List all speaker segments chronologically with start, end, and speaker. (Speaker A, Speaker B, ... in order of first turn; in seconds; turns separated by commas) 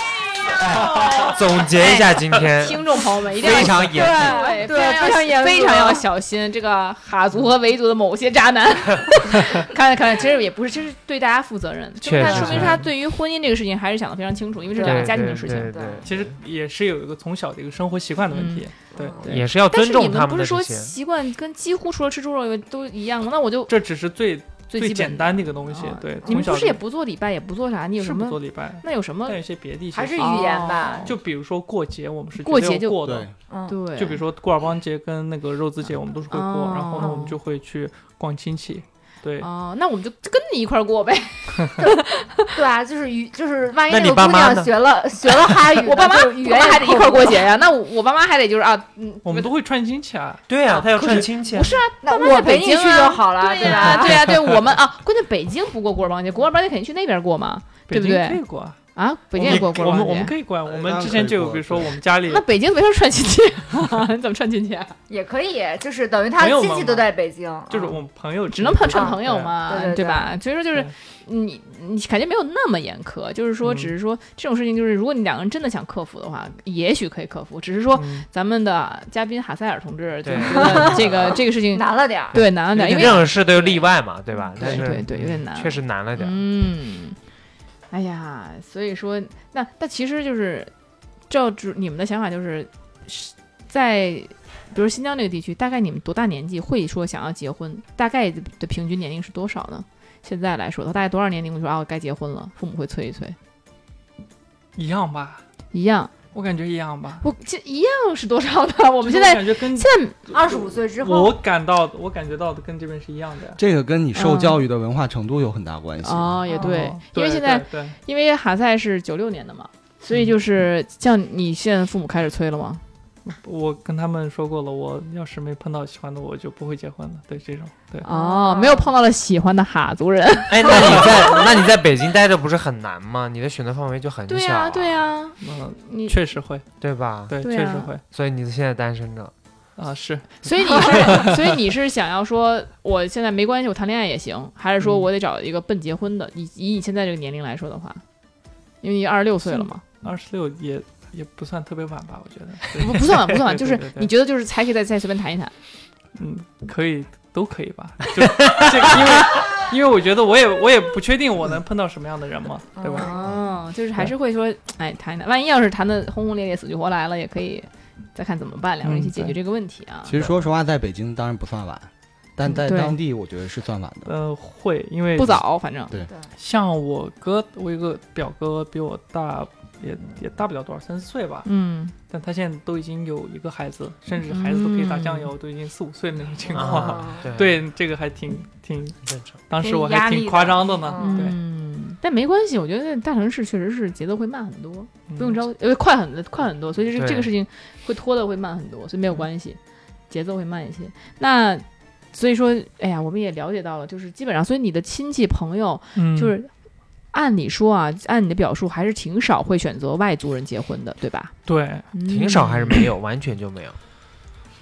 Speaker A: 0.4-15.8, Speaker B: 0.7-4.5, Speaker C: 3.5-6.1, Speaker B: 12.0-12.9, Speaker D: 12.2-12.9, Speaker C: 14.8-16.1, Speaker B: 14.8-16.4, Speaker D: 16.1-19.3, Speaker A: 18.3-18.7, Speaker C: 19.0-19.2, Speaker B: 19.2-20.9, Speaker A: 19.2-23.8, Speaker D: 23.7-26.8, Speaker A: 24.7-29.4, Speaker C: 26.2-26.5, Speaker D: 28.0-33.3, Speaker C: 29.9-31.1, Speaker A: 30.2-31.1, Speaker A: 32.4-33.1, Speaker E: 33.0-33.3, Speaker C: 33.5-33.8, Speaker A: 33.7-34.2, Speaker D: 33.9-39.5, Speaker A: 36.3-37.4, Speaker A: 39.4-42.6, Speaker C: 42.5-47.5, Speaker B: 43.9-44.7, Speaker A: 45.8-49.5, Speaker D: 49.2-50.5, Speaker B: 50.5-51.8, Speaker C: 50.7-51.3, Speaker A: 51.0-58.4, Speaker C: 52.0-54.4, Speaker D: 57.9-58.8, Speaker A: 59.0-60.3, Speaker D: 59.3-62.5, Speaker B: 59.4-60.0, Speaker E: 60.6-62.0, Speaker A: 62.3-65.0, Speaker C: 65.1-68.0, Speaker D: 66.4-67.1, Speaker D: 67.7-69.5, Speaker A: 68.5-83.8, Speaker C: 68.9-70.3, Speaker D: 73.6-73.9, Speaker D: 78.0-78.3, Speaker B: 80.2-81.1, Speaker C: 80.6-82.5, Speaker B: 82.3-86.4, Speaker A: 84.6-87.2, Speaker A: 87.9-90.7, Speaker A: 91.3-103.4, Speaker D: 104.8-105.4, Speaker A: 105.7-106.1, Speaker D: 106.3-107.2, Speaker A: 107.2-110.2, Speaker D: 109.0-113.6, Speaker C: 110.3-111.4, Speaker E: 113.6-116.4, Speaker A: 114.2-114.6, Speaker A: 116.0-122.8, Speaker D: 116.5-118.0, Speaker D: 123.3-128.1, Speaker A: 128.0-131.2, Speaker C: 128.0-128.9, Speaker B: 130.5-135.1, Speaker C: 130.7-131.5, Speaker A: 134.3-136.2, Speaker D: 135.4-136.7, Speaker B: 136.8-137.4, Speaker D: 137.3-138.0, Speaker A: 137.4-137.9, Speaker B: 138.0-139.3, Speaker D: 139.8-141.4, Speaker A: 140.4-148.0, Speaker D: 144.8-145.1, Speaker A: 148.8-149.8, Speaker D: 149.5-154.1, Speaker A: 152.8-155.5, Speaker D: 156.2-163.2, Speaker B: 158.4-158.8, Speaker C: 162.8-163.3, Speaker A: 162.9-170.2, Speaker D: 168.8-169.4, Speaker E: 170.1-174.1, Speaker A: 172.5-173.0, Speaker D: 174.1-175.4, Speaker A: 175.2-176.0, Speaker D: 176.4-181.5, Speaker A: 181.4-181.9, Speaker D: 182.1-191.4, Speaker A: 184.3-185.3, Speaker C: 186.5-187.3, Speaker B: 186.5-187.6, Speaker B: 189.1-189.4, Speaker C: 189.6-191.3, Speaker A: 191.0-199.6, Speaker D: 195.1-195.4, Speaker B: 196.9-197.3, Speaker A: 200.1-206.5, Speaker D: 205.9-206.3, Speaker A: 207.1-211.3, Speaker D: 211.5-211.9, Speaker A: 211.9-212.8, Speaker B: 212.1-213.8